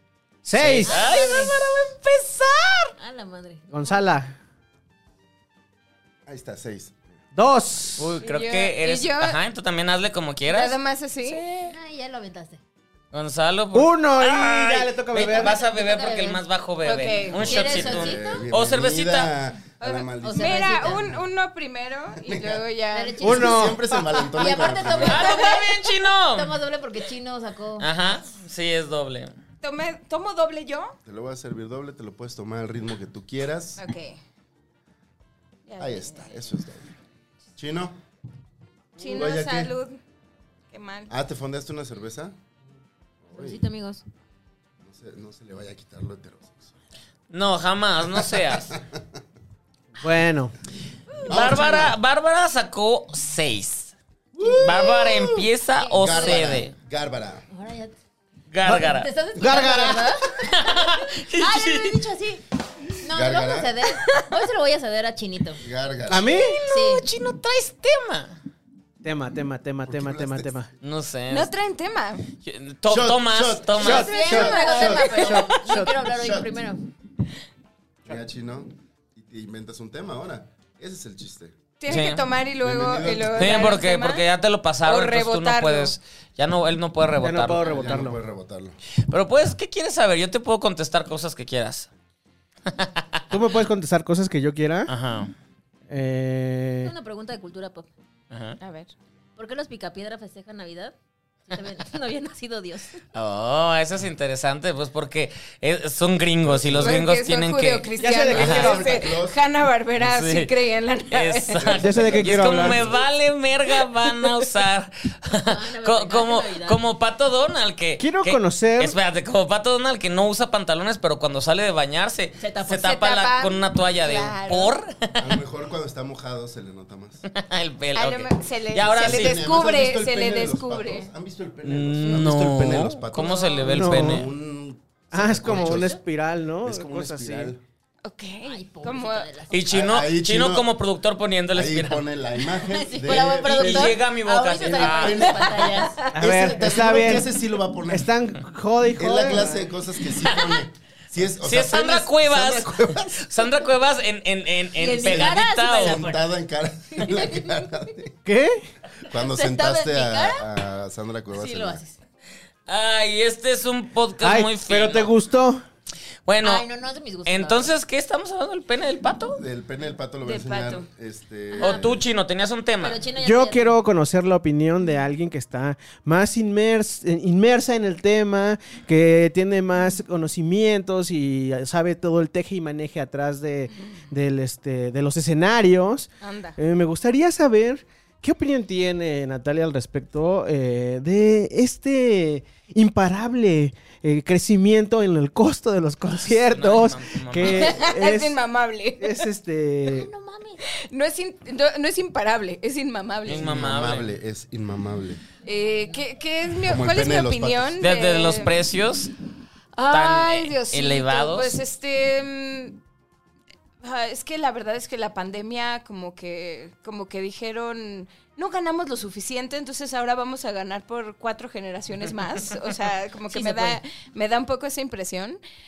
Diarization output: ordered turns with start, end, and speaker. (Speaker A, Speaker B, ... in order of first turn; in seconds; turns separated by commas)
Speaker A: 0.4-1.0, Speaker B: 0.5-2.9, Speaker C: 0.8-1.6, Speaker C: 3.0-4.0, Speaker A: 3.7-4.3, Speaker D: 6.2-7.0, Speaker A: 7.3-8.2, Speaker B: 8.0-11.3, Speaker E: 8.2-9.4, Speaker E: 10.5-11.7, Speaker C: 11.6-12.6, Speaker B: 13.1-19.3, Speaker A: 13.7-15.6, Speaker C: 15.2-16.4, Speaker E: 16.8-17.6, Speaker D: 17.4-21.0, Speaker C: 17.4-18.4, Speaker E: 19.8-23.3, Speaker C: 20.2-21.2, Speaker D: 22.2-22.6, Speaker C: 22.9-27.9, Speaker A: 23.2-24.0, Speaker D: 23.2-25.3, Speaker B: 25.0-26.5, Speaker B: 27.8-29.3, Speaker E: 29.6-30.9, Speaker D: 31.0-33.8, Speaker E: 33.8-34.2, Speaker E: 35.6-36.3, Speaker D: 35.8-36.9, Speaker D: 37.6-38.0, Speaker E: 39.0-40.0, Speaker D: 39.0-39.7, Speaker E: 40.7-41.1, Speaker D: 41.1-42.3, Speaker D: 43.2-43.6, Speaker C: 43.3-44.0, Speaker D: 44.8-46.7, Speaker B: 47.3-48.7, Speaker D: 48.1-49.0, Speaker A: 50.0-50.5, Speaker D: 51.3-52.0, Speaker B: 51.3-53.9, Speaker D: 54.4-57.4, Speaker B: 54.5-56.7, Speaker C: 55.8-56.5, Speaker C: 57.5-57.9, Speaker B: 58.5-59.1, Speaker A: 58.6-60.2, Speaker C: 58.8-62.4, Speaker B: 60.4-62.0, Speaker C: 63.0-65.6, Speaker D: 63.1-63.8, Speaker D: 65.6-66.3, Speaker A: 66.1-66.6, Speaker B: 66.6-68.3, Speaker C: 66.7-67.0, Speaker A: 69.0-70.7, Speaker D: 69.9-70.5, Speaker B: 70.8-71.5, Speaker E: 71.3-72.3, Speaker B: 72.4-74.1, Speaker D: 72.9-73.9, Speaker A: 73.8-76.0, Speaker E: 73.8-75.6, Speaker C: 73.8-76.8, Speaker D: 76.0-76.5, Speaker D: 78.0-81.6, Speaker E: 81.8-84.2, Speaker B: 81.9-82.2, Speaker D: 82.6-83.8, Speaker B: 83.3-87.7, Speaker E: 84.8-85.9, Speaker A: 87.2-88.2, Speaker D: 87.6-88.8, Speaker B: 89.1-91.9, Speaker B: 92.7-93.2, Speaker A: 93.3-94.9, Speaker B: 94.9-95.3, Speaker A: 95.9-96.9, Speaker C: 96.8-97.9, Speaker B: 98.3-98.6, Speaker E: 98.6-98.9, Speaker C: 99.4-100.9, Speaker C: 101.5-103.0, Speaker B: 103.1-108.8, Speaker D: 106.4-107.0, Speaker E: 106.8-111.8, Speaker A: 108.0-108.9, Speaker D: 108.4-109.4, Speaker B: 110.0-110.5, Speaker B: 111.1-125.3, Speaker D: 111.6-113.0, Speaker A: 111.7-112.8, Speaker C: 115.3-116.8, Speaker A: 118.0-118.9, Speaker C: 122.4-122.9, Speaker E: 122.7-124.8, Speaker D: 125.2-127.2, Speaker B: 127.3-129.4, Speaker E: 127.9-131.1, Speaker D: 128.9-136.0, Speaker B: 131.6-134.3, Speaker E: 133.2-133.6, Speaker A: 133.6-134.3, Speaker A: 135.1-137.5, Speaker C: 135.4-136.0, Speaker D: 136.6-137.6, Speaker E: 138.0-139.3, Speaker C: 138.4-139.7, Speaker B: 139.5-142.0, Speaker D: 139.7-140.7, Speaker D: 141.5-144.0, Speaker C: 142.6-146.4, Speaker B: 143.1-145.4, Speaker D: 144.6-148.1, Speaker E: 146.0-146.3, Speaker A: 146.1-147.4, Speaker A: 147.9-149.7, Speaker D: 149.0-153.3, Speaker B: 150.2-150.6, Speaker B: 151.4-156.0, Speaker C: 154.8-156.2, Speaker D: 155.0-158.1, Speaker C: 156.9-157.5, Speaker A: 158.2-158.6, Speaker D: 159.0-161.8, Speaker C: 159.2-160.4, Speaker C: 161.3-162.0, Speaker B: 162.7-165.1, Speaker A: 164.2-165.6, Speaker B: 166.2-166.6, Speaker C: 166.4-167.7, Speaker B: 167.2-169.4, Speaker D: 169.3-172.0, Speaker E: 170.2-170.8, Speaker B: 171.6-173.0, Speaker C: 172.8-173.8, Speaker A: 173.2-198.4, Speaker E: 186.2-186.6, Speaker B: 196.1-197.8, Speaker E: 197.4-199.3, Speaker A: 199.0-200.1, Speaker C: 199.9-200.6, Speaker E: 200.7-203.7, Speaker B: 203.2-204.1, Speaker D: 203.3-205.2, Speaker E: 205.4-208.6, Speaker C: 205.5-206.0, Speaker D: 206.7-207.8, Speaker B: 207.8-209.1, Speaker E: 209.7-212.8, Speaker B: 209.9-211.6, Speaker E: 213.8-225.4, Speaker C: 223.3-223.8